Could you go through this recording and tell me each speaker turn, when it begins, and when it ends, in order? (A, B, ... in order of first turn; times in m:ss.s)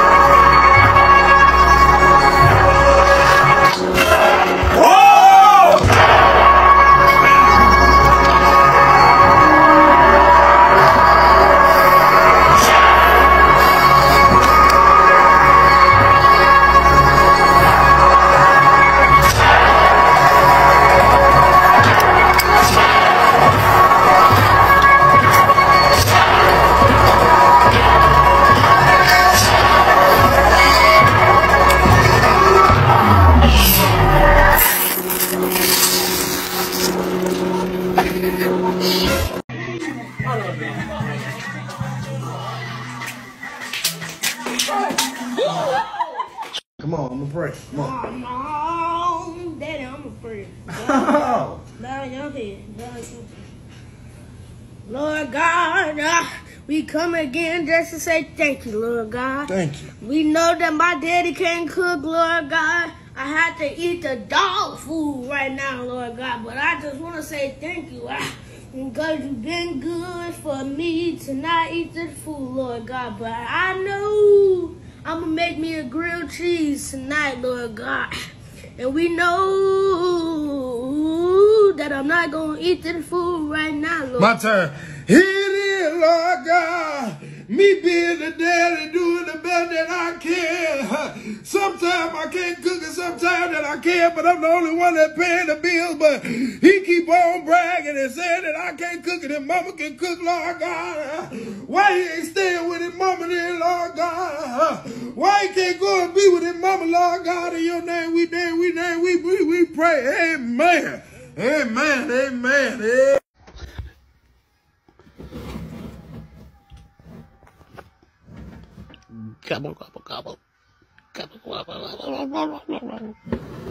0:46.8-0:47.9 A
0:47.7-0:53.4 B
0:50.8-0:51.6 A
0:54.8-1:18.1 B
0:59.5-0:59.9 A
1:18.8-1:24.4 B
1:24.2-1:53.2 A
1:59.2-2:00.4 C
2:01.1-2:03.2 C